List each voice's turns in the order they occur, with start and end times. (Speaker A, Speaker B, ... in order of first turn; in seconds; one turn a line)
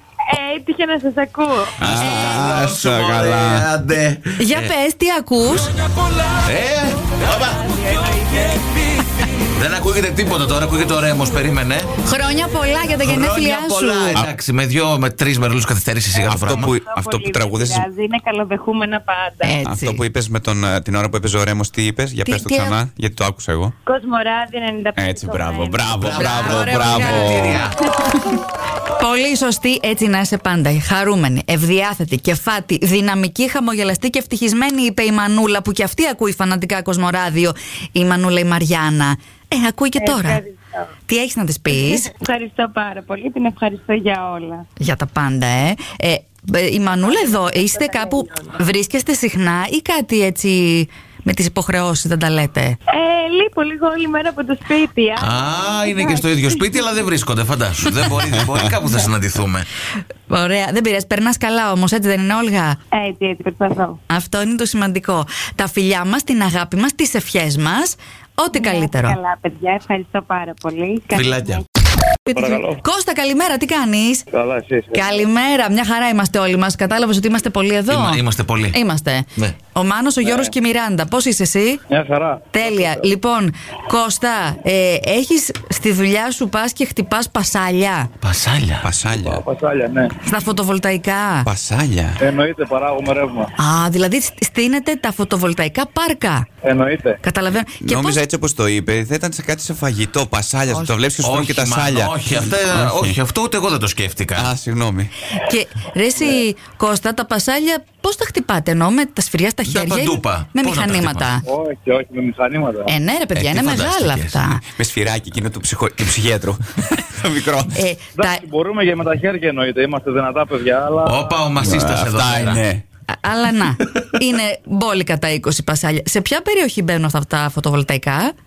Speaker A: 0.3-1.7
Speaker B: 1.8-3.7
Speaker C: 1.8-4.7
Speaker D: 4.4-5.7
Speaker C: 6.4-8.2
Speaker C: 9.5-11.9
Speaker D: 12.0-14.2
Speaker C: 13.0-16.8
Speaker B: 16.2-17.9
Speaker A: 16.4-19.6
Speaker D: 19.4-20.0
Speaker B: 19.6-23.7
Speaker D: 22.2-22.8
Speaker A: 23.9-25.8
Speaker B: 24.9-27.7
Speaker C: 25.9-27.8
Speaker D: 26.2-28.1
Speaker D: 29.0-40.4
Speaker A: 40.0-40.9
Speaker D: 41.1-42.1
Speaker A: 41.7-44.6
Speaker D: 44.8-52.8
Speaker A: 47.0-48.6
Speaker A: 52.9-56.8
Speaker C: 55.2-59.7
Speaker D: 60.3-62.8
Speaker A: 62.9-64.0
Speaker D: 64.1-69.2
Speaker A: 68.5-71.6
Speaker C: 71.1-71.6
Speaker D: 72.2-74.2
Speaker E: 72.3-72.8
Speaker E: 74.3-75.2
Speaker D: 74.9-78.2
Speaker C: 77.9-78.8
Speaker D: 78.7-81.8
Speaker E: 80.2-80.5
Speaker E: 81.9-83.1
Speaker D: 82.5-88.1
Speaker C: 88.2-88.8
Speaker B: 88.8-89.4
Speaker E: 89.2-90.1
Speaker D: 90.2-91.5
Speaker B: 91.4-92.2
Speaker E: 92.2-93.5
Speaker D: 93.6-96.5
Speaker E: 96.6-97.2
Speaker D: 97.2-98.2
Speaker B: 97.8-103.2
Speaker C: 101.2-104.5
Speaker B: 104.3-105.1
Speaker D: 105.3-111.4
Speaker C: 109.7-111.3
Speaker E: 111.5-112.9
Speaker D: 112.9-114.6
Speaker C: 113.3-114.4
Speaker B: 114.8-117.8
Speaker D: 117.7-118.4
Speaker E: 118.2-121.3
Speaker C: 121.0-122.6
Speaker B: 121.6-122.8
Speaker D: 123.1-128.3